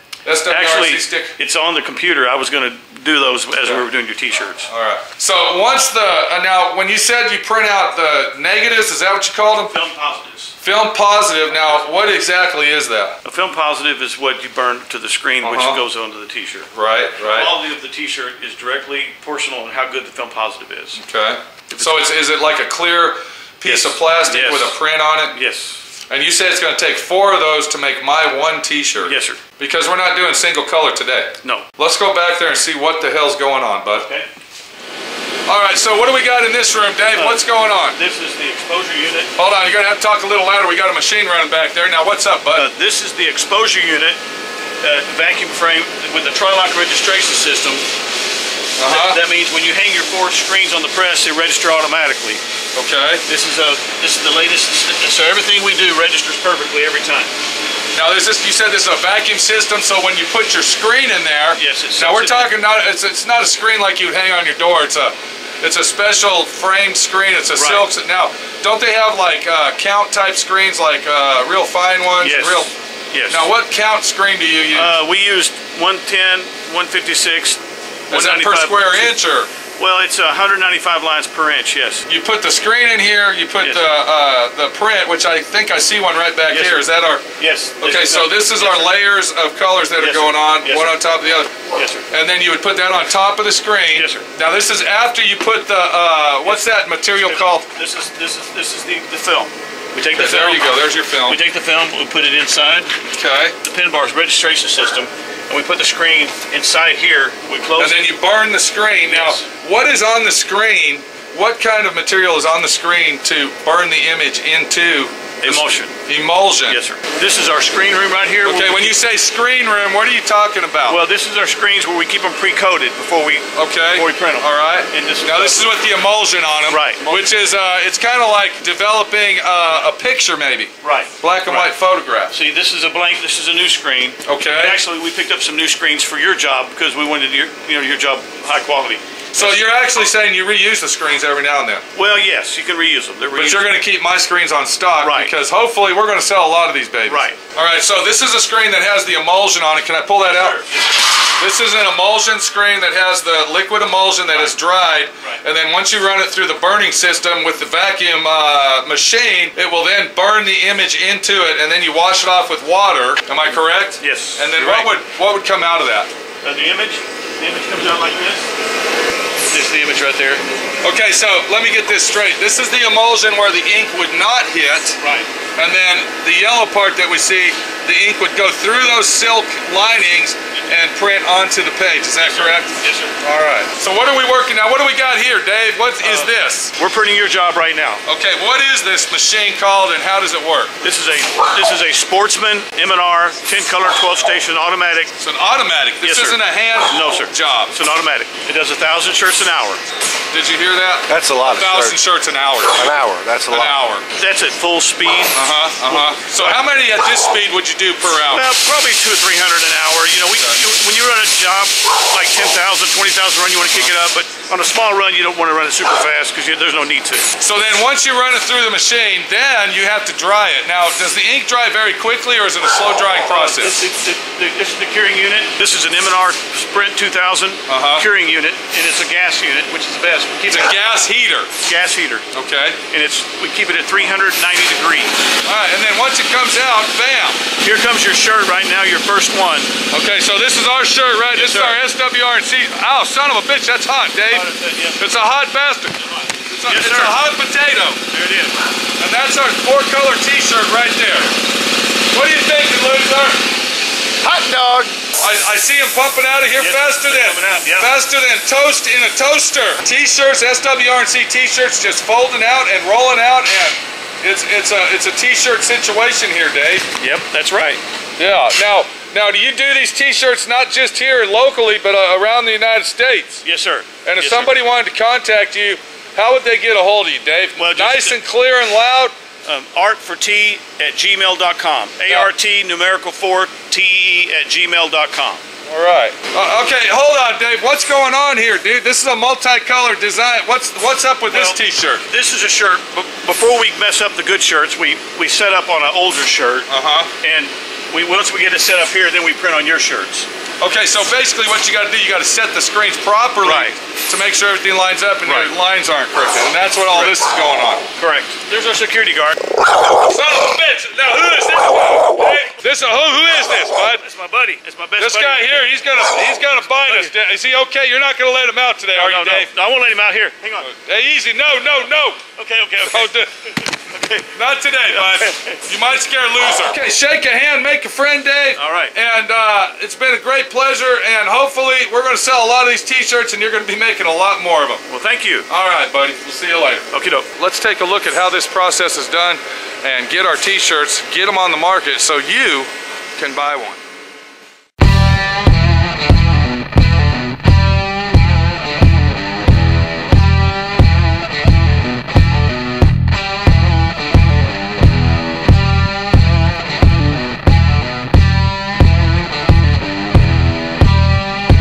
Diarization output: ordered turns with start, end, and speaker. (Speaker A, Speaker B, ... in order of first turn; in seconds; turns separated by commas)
Speaker A: 0.2-1.3, Speaker B: 0.5-4.7, Speaker A: 4.7-9.7, Speaker B: 9.6-10.6, Speaker A: 10.6-13.2, Speaker B: 11.4-11.9, Speaker B: 13.2-21.0, Speaker A: 15.4-15.8, Speaker A: 16.7-17.5, Speaker A: 21.0-25.4, Speaker B: 21.7-22.1, Speaker B: 23.6-24.8, Speaker B: 25.3-25.8, Speaker A: 26.1-34.1, Speaker B: 29.0-29.4, Speaker B: 34.0-34.3, Speaker A: 35.5-38.0, Speaker B: 37.1-39.3, Speaker A: 39.4-42.6, Speaker B: 42.5-44.2, Speaker B: 44.8-47.8, Speaker A: 48.8-49.2, Speaker B: 48.8-52.4, Speaker A: 52.7-53.2, Speaker B: 53.2-57.3, Speaker A: 57.9-72.7, Speaker B: 61.5-62.5, Speaker B: 67.5-67.9, Speaker B: 72.2-73.5, Speaker A: 73.3-75.0, Speaker B: 74.7-79.1, Speaker A: 78.1-79.5, Speaker B: 79.7-82.1, Speaker A: 82.1-87.2, Speaker B: 83.6-83.9, Speaker B: 86.5-86.8, Speaker B: 87.4-89.0, Speaker A: 87.8-91.5, Speaker B: 90.0-91.0, Speaker B: 91.7-92.1, Speaker A: 92.1-97.7, Speaker B: 93.9-94.3, Speaker B: 96.4-103.0, Speaker A: 100.2-101.4, Speaker A: 103.1-103.5, Speaker B: 103.6-108.0, Speaker A: 107.8-116.8, Speaker B: 109.0-109.4, Speaker B: 115.4-116.0, Speaker B: 116.7-119.0, Speaker A: 118.4-121.0, Speaker B: 120.9-125.7, Speaker A: 123.5-132.3, Speaker B: 126.7-127.3, Speaker B: 130.8-131.7, Speaker B: 132.3-139.6, Speaker A: 134.2-134.7, Speaker A: 139.3-141.8, Speaker B: 141.9-143.7, Speaker A: 143.4-150.7, Speaker B: 145.0-145.3, Speaker B: 147.1-147.4, Speaker B: 150.2-151.0, Speaker A: 151.3-166.1, Speaker B: 164.0-164.9, Speaker B: 166.4-168.5, Speaker B: 169.5-170.4, Speaker A: 170.8-175.0, Speaker B: 175.0-175.3, Speaker A: 175.6-186.7, Speaker B: 182.2-183.2, Speaker B: 186.0-188.0, Speaker A: 188.0-190.7, Speaker B: 190.8-195.1, Speaker A: 195.2-197.7, Speaker B: 196.0-199.8, Speaker A: 200.3-202.9, Speaker C: 201.1-202.0, Speaker C: 202.7-203.8, Speaker A: 203.5-204.0, Speaker B: 204.2-206.6, Speaker A: 205.3-208.5, Speaker B: 208.3-217.3, Speaker A: 217.4-223.7, Speaker B: 223.2-230.8, Speaker A: 227.7-228.0, Speaker A: 230.5-231.5, Speaker B: 231.6-232.2, Speaker A: 232.3-232.8, Speaker B: 232.9-235.2, Speaker A: 235.4-237.4, Speaker B: 237.6-239.7, Speaker A: 239.9-244.4, Speaker B: 241.3-241.8, Speaker B: 244.3-245.1, Speaker A: 245.0-245.9, Speaker B: 246.0-247.2, Speaker A: 246.5-248.0, Speaker B: 248.1-248.6, Speaker A: 249.0-251.3, Speaker A: 252.1-253.4, Speaker C: 254.2-255.0, Speaker A: 255.2-266.9, Speaker B: 256.5-257.9, Speaker B: 267.0-267.8, Speaker A: 268.2-273.4, Speaker B: 273.4-274.5, Speaker A: 274.0-279.1, Speaker B: 277.6-278.2, Speaker B: 279.4-285.4, Speaker A: 285.7-292.0, Speaker B: 291.3-300.3, Speaker A: 296.7-297.1, Speaker A: 300.6-307.8, Speaker B: 303.4-303.8, Speaker B: 305.2-305.5, Speaker B: 306.9-307.1, Speaker B: 307.9-309.5, Speaker A: 309.9-314.0, Speaker B: 313.8-317.1, Speaker A: 315.0-319.5, Speaker B: 318.9-320.7, Speaker A: 320.6-322.2, Speaker B: 322.3-324.3, Speaker A: 322.9-323.3, Speaker A: 324.3-334.8, Speaker B: 324.9-325.6, Speaker B: 328.5-328.9, Speaker B: 334.9-335.5, Speaker A: 335.5-343.8, Speaker B: 336.9-337.3